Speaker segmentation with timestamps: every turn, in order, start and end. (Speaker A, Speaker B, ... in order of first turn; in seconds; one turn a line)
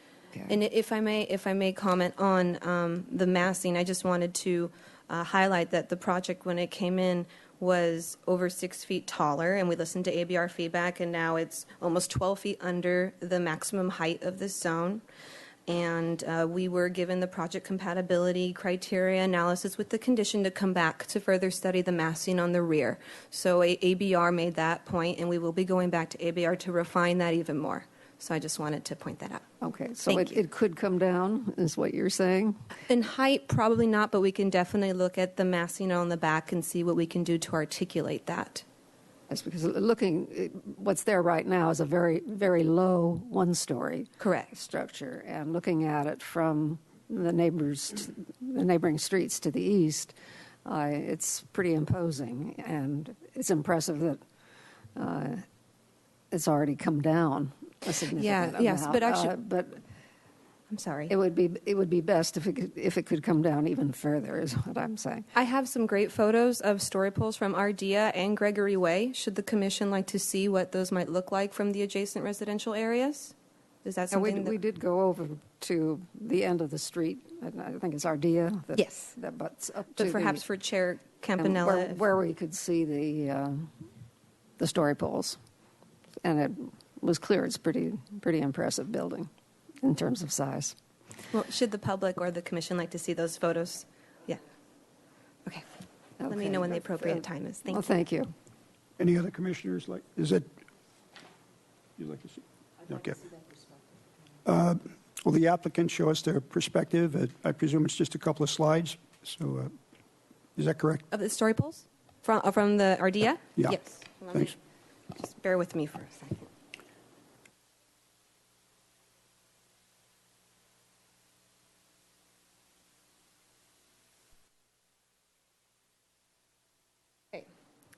Speaker A: 0.5-15.0
Speaker A: 15.7-29.4
Speaker B: 29.6-32.5
Speaker A: 30.1-30.4
Speaker A: 32.9-38.6
Speaker B: 39.3-54.2
Speaker A: 44.2-44.5
Speaker B: 55.0-55.4
Speaker B: 56.3-59.8
Speaker A: 58.1-59.3
Speaker A: 60.7-61.1
Speaker B: 61.1-65.2
Speaker A: 65.3-74.5
Speaker B: 74.1-80.4
Speaker A: 78.7-79.1
Speaker A: 80.0-82.0
Speaker B: 81.4-83.7
Speaker B: 84.6-85.4
Speaker B: 86.2-89.3
Speaker B: 89.8-90.7
Speaker A: 91.3-94.4
Speaker B: 96.2-98.3
Speaker A: 96.2-97.9
Speaker C: 99.0-100.5
Speaker C: 102.0-103.2
Speaker C: 104.4-109.7
Speaker C: 110.5-111.0
Speaker A: 111.1-114.5
Speaker A: 115.1-116.5